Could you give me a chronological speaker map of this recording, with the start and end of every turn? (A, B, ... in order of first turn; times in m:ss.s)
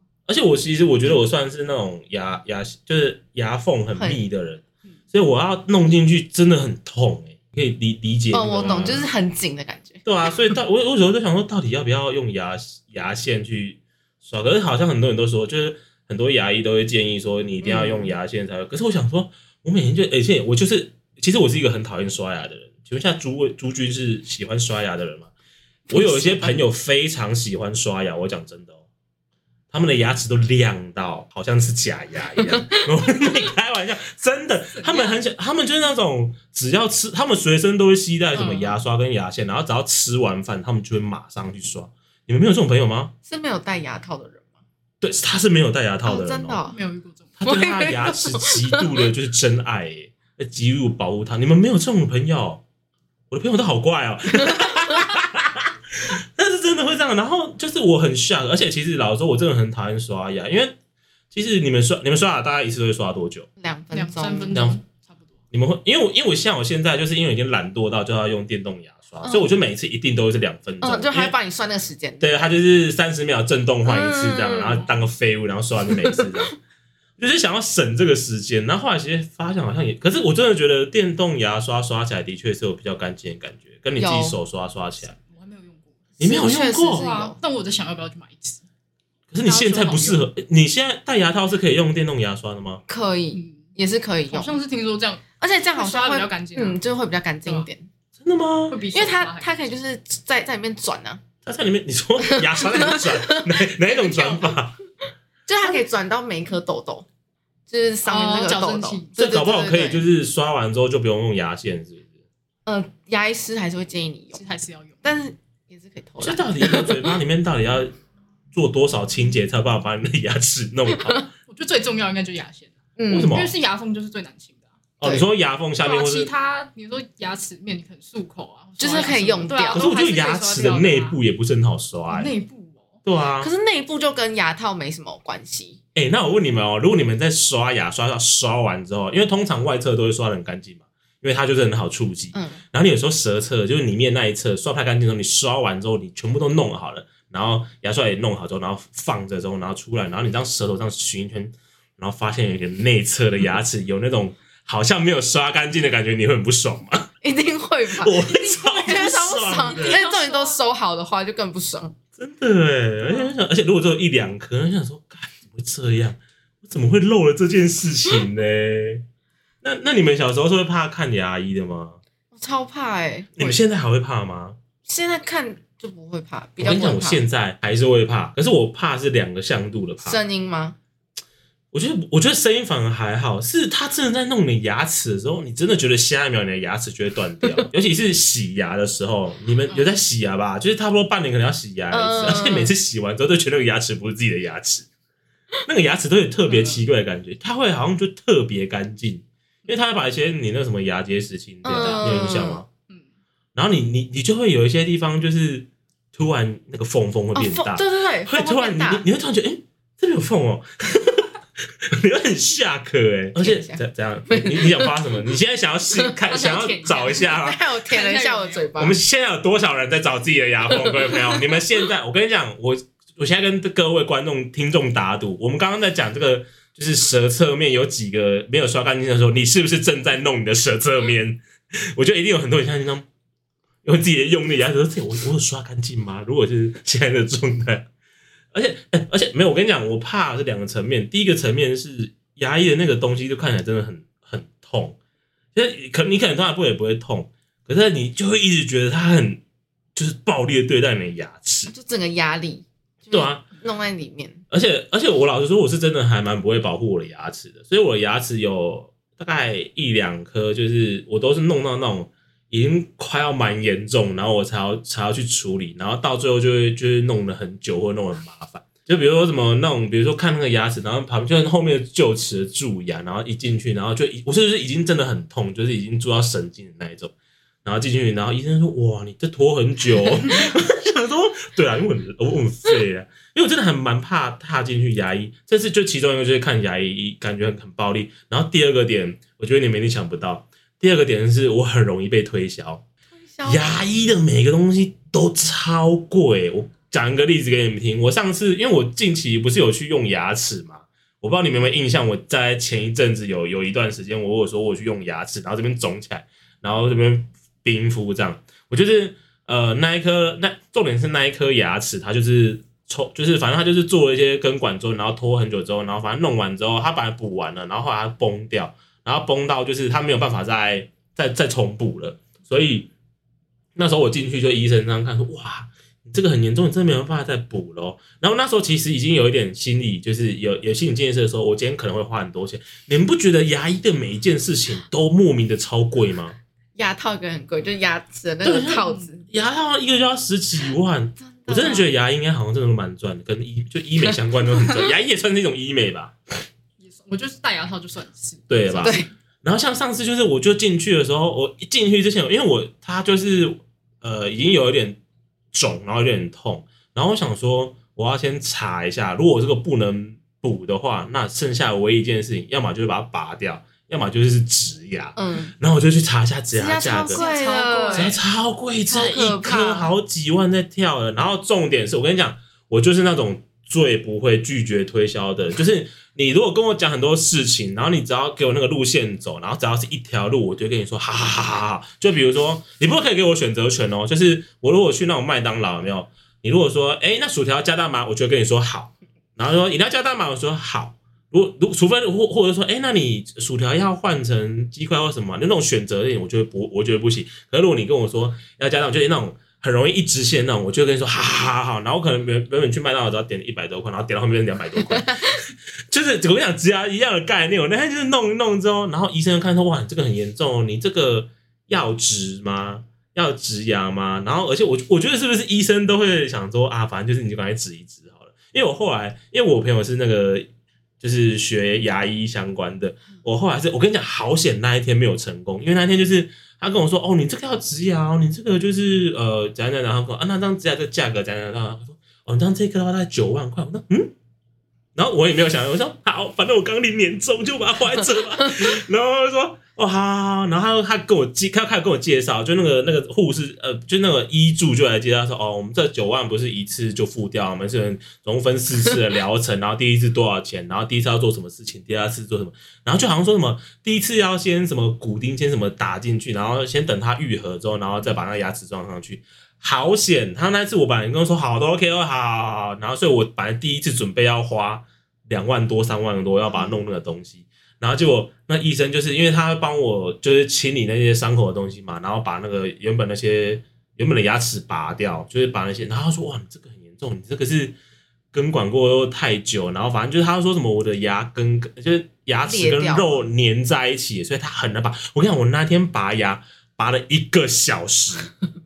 0:00.3-0:09.1 A
0:03.9-0:04.2 B
0:08.3-0:10.0 B
0:08.6-0:09.0 C
0:10.0-0:25.3 A
0:17.6-0:18.1 B
0:25.9-0:28.8 A
0:25.9-0:26.5 C
0:29.7-0:43.1 A
0:32.4-0:32.8 B
0:34.7-0:35.2 C
0:38.3-0:38.8 C
0:43.2-0:44.5 B
0:45.0-0:46.6 A
0:46.0-0:46.8 B
0:46.7-0:47.3 C
0:47.4-0:52.6 A
0:47.4-0:49.0 B
0:53.3-1:00.8 A
1:01.3-1:03.5 A
1:03.6-1:04.6 B
1:03.9-1:05.2 C
1:04.5-1:04.8 A
1:05.5-1:11.3 A
1:09.2-1:09.5 B
1:10.8-1:12.3 B
1:12.2-1:16.5 A
1:13.8-1:14.8 B
1:16.0-1:16.3 B
1:17.2-1:25.1 A
1:24.0-1:24.4 B
1:25.1-1:26.1 C
1:26.2-1:27.0 A
1:26.2-1:27.4 B
1:26.7-1:28.6 C
1:29.3-1:32.8 A
1:29.4-1:30.2 C
1:32.9-1:34.6 B
1:33.3-1:33.7 C
1:34.3-1:36.8 C
1:35.4-1:37.9 B
1:38.2-1:38.8 A
1:38.7-1:39.7 C
1:38.9-1:41.2 B
1:41.4-1:44.8 A
1:42.2-1:43.7 B
1:44.0-1:44.5 C
1:45.5-1:47.0 B
1:47.7-1:50.0 B
1:48.0-1:49.1 C
1:49.2-1:52.1 A
1:52.6-1:54.4 B
1:54.3-1:55.1 C
1:55.0-1:57.1 B
1:56.2-1:57.9 A
1:58.5-2:01.3 A
2:01.0-2:01.2 B
2:01.5-2:04.6 C
2:03.0-2:03.4 B
2:03.1-2:03.5 A
2:05.0-2:06.3 A
2:05.8-2:11.2 C
2:08.8-2:09.9 B
2:09.7-2:12.3 A
2:12.1-2:13.0 C
2:13.0-2:13.5 A
2:13.4-2:15.8 B
2:15.9-2:37.1 A
2:22.3-2:22.6 B
2:37.2-2:42.0 B
2:37.9-2:40.0 A
2:39.5-2:40.6 C
2:42.2-2:49.0 A
2:49.6-2:52.0 A
2:52.3-2:53.6 B
2:53.4-2:54.6 A
2:54.8-2:57.2 B
2:56.6-3:00.2 A
3:00.0-3:00.8 B
3:01.7-3:14.9 A
3:09.7-3:10.0 C
3:11.9-3:12.7 B
3:15.6-3:22.7 A
3:16.5-3:16.8 C
3:21.6-3:22.6 B
3:21.8-3:22.4 C
3:23.5-3:37.6 A
3:27.3-3:29.0 B
3:33.3-3:35.0 B
3:36.0-3:36.6 B
3:36.3-3:38.7 C
3:37.1-3:39.0 B
3:38.8-3:51.4 A
3:40.7-3:41.6 B
3:51.9-3:53.0 A
3:53.8-3:57.9 A
3:58.5-4:05.0 A
4:05.5-4:09.4 A
4:09.9-4:11.7 A
4:11.7-4:14.4 B
4:13.1-4:13.4 A
4:14.5-4:37.1 A
4:37.6-4:52.8 A
4:53.1-4:53.8 B
4:53.4-5:22.9 A
5:23.8-5:36.4 A
5:36.8-5:39.2 B
5:38.4-5:46.1 A
5:41.2-5:41.9 B
5:46.8-5:49.0 C
5:48.5-5:55.0 A
5:48.8-5:49.1 B
5:55.5-6:07.2 A
6:05.2-6:05.5 B
6:06.5-6:08.2 B
6:07.1-6:08.2 C
6:07.9-6:45.4 A
6:08.9-6:09.9 B
6:45.9-7:00.5 A
7:01.0-7:14.1 A
7:14.9-7:57.8 A
7:46.5-7:46.8 B
7:58.3-8:08.3 A
8:02.4-8:03.2 B